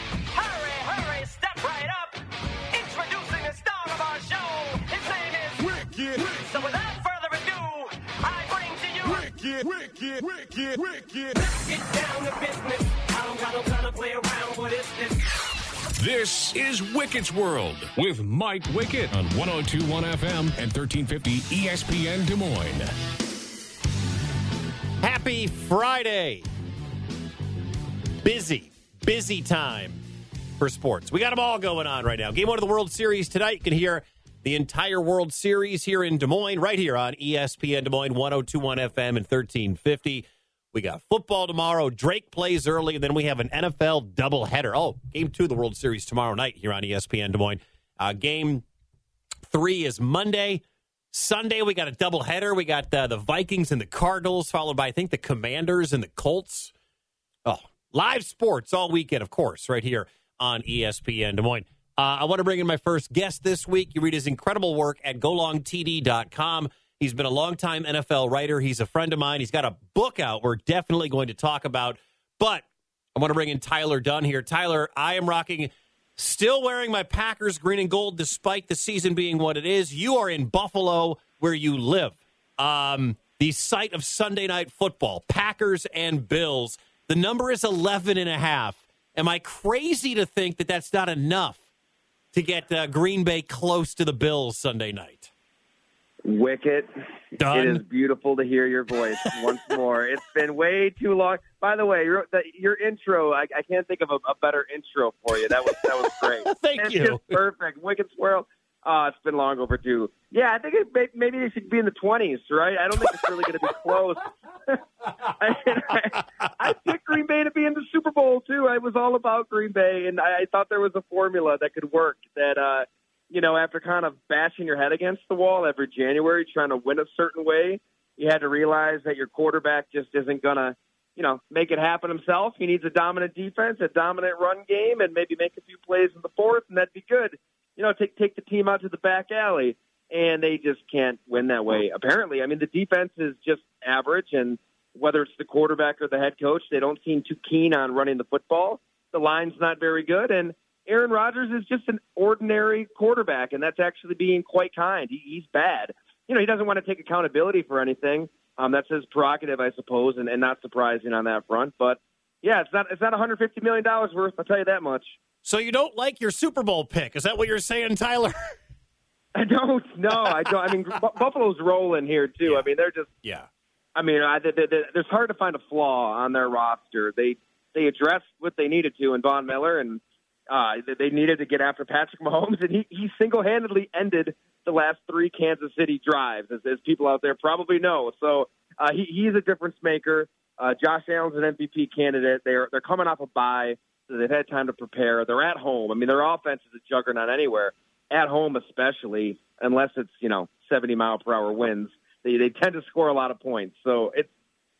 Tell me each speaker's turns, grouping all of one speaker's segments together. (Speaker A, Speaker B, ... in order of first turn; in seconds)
Speaker A: 0.3-9.4, 11.3-15.3
Speaker B: 16.0-22.9
Speaker C: 25.0-26.4, 28.2-30.0, 30.6-48.6, 49.5-56.7, 57.4-91.6, 92.3-95.3, 97.4-97.8, 106.4-107.4, 165.4-168.3, 173.2-173.5
Speaker D: 96.2-96.9, 97.5-165.2, 169.3-173.1, 173.9-204.3